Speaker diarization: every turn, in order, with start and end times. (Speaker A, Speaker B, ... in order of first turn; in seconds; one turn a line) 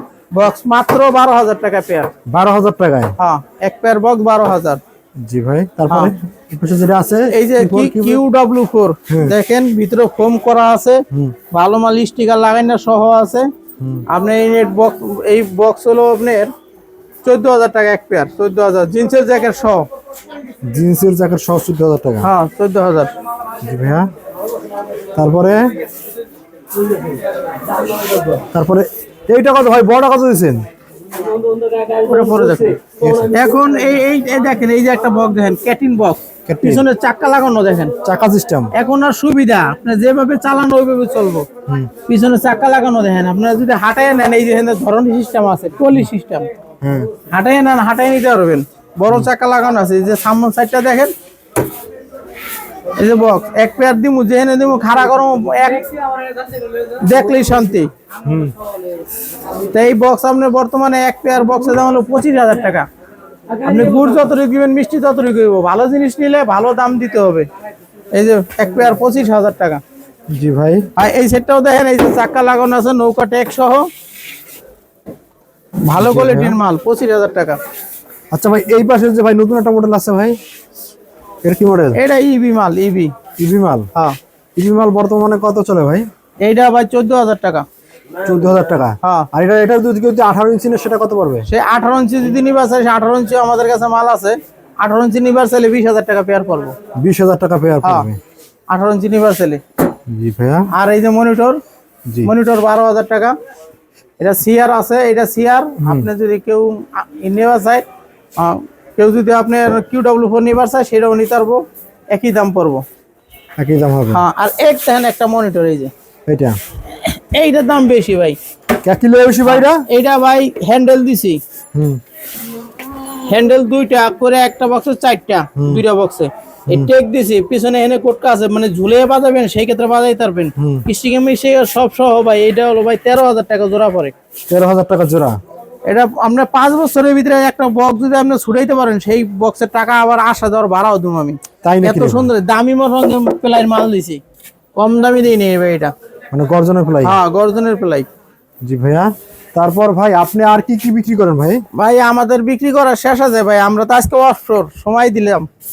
Speaker A: 0.3-2.1
Speaker B: 2.3-3.1
Speaker A: 3.2-4.8
Speaker B: 5.2-8.2
Speaker A: 7.3-13.5
Speaker B: 9.1-9.3
Speaker B: 13.8-14.1
Speaker A: 14.1-16.5
Speaker A: 17.2-19.8
Speaker B: 20.6-22.3
Speaker A: 22.2-23.1
Speaker B: 23.6-24.1
Speaker B: 25.1-25.7
Speaker B: 28.3-30.6
Speaker A: 31.9-37.9
Speaker B: 32.9-33.5
Speaker B: 36.5-36.9
Speaker B: 38.0-38.7
Speaker A: 38.7-41.4
Speaker A: 42.0-46.5
Speaker B: 46.8-47.1
Speaker A: 47.3-51.1
Speaker A: 53.0-56.0
Speaker A: 56.9-57.9
Speaker B: 58.2-58.5
Speaker A: 59.7-62.9
Speaker A: 63.5-67.5
Speaker A: 68.1-69.8
Speaker B: 70.3-70.9
Speaker A: 71.0-73.9
Speaker A: 75.8-77.6
Speaker B: 76.0-76.6
Speaker B: 78.3-80.4
Speaker B: 81.4-82.0
Speaker A: 81.9-83.1
Speaker B: 83.4-83.9
Speaker B: 84.5-86.1
Speaker A: 86.4-87.6
Speaker B: 88.2-91.5
Speaker A: 91.5-96.8
Speaker B: 97.0-98.2
Speaker A: 97.8-98.1
Speaker A: 98.7-99.6
Speaker B: 100.1-100.7
Speaker A: 100.7-101.6
Speaker A: 102.2-103.3
Speaker A: 104.2-107.8
Speaker B: 105.8-106.1
Speaker A: 108.4-112.8
Speaker B: 113.6-114.2
Speaker A: 114.1-115.9
Speaker B: 116.3-116.6
Speaker A: 116.9-118.4
Speaker B: 118.8-119.8
Speaker A: 119.5-121.4
Speaker B: 121.7-122.0
Speaker A: 123.3-134.1
Speaker B: 125.6-125.8
Speaker B: 130.6-130.8
Speaker B: 134.5-135.3
Speaker A: 135.9-144.2
Speaker B: 141.6-142.3
Speaker A: 144.8-145.9
Speaker B: 146.3-147.2
Speaker A: 147.0-148.1
Speaker B: 148.6-151.6
Speaker A: 151.7-155.5